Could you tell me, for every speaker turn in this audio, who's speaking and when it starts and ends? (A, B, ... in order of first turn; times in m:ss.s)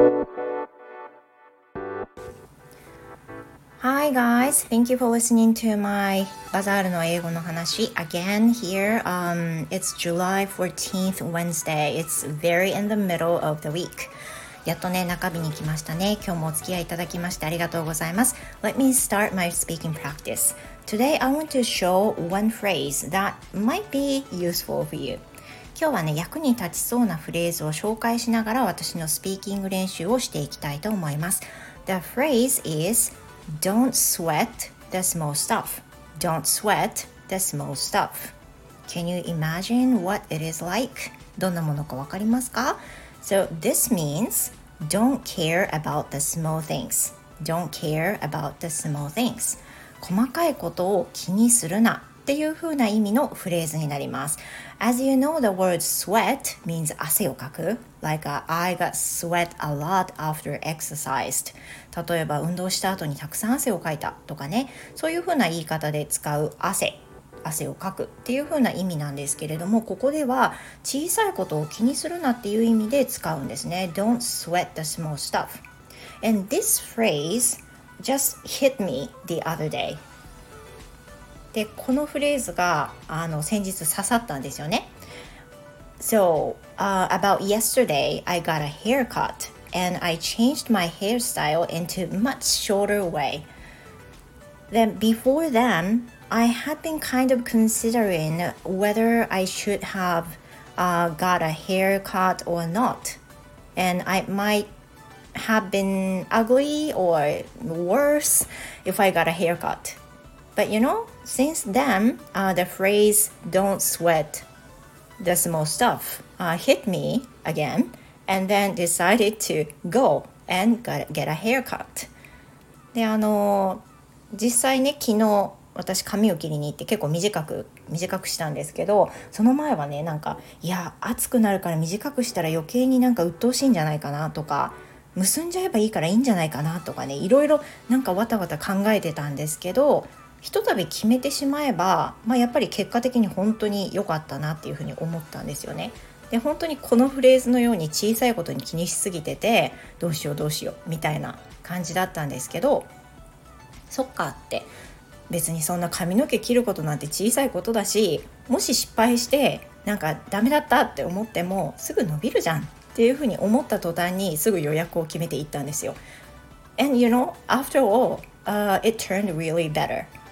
0:03.8-0:14.1 A
0:14.6-0:25.2 A
0:25.7-0:38.3 A
0:38.8-1:15.6 A
1:16.2-1:20.0 A
1:21.5-1:24.9 A
1:26.0-1:33.5 A
1:34.7-1:43.2 A
1:43.7-1:44.7 A
1:45.3-1:50.0 A
1:50.6-1:54.4 A
1:55.2-2:02.1 A
2:02.9-2:32.9 A
2:33.9-2:34.7 A
2:35.3-2:46.0 A
2:46.8-2:50.1 A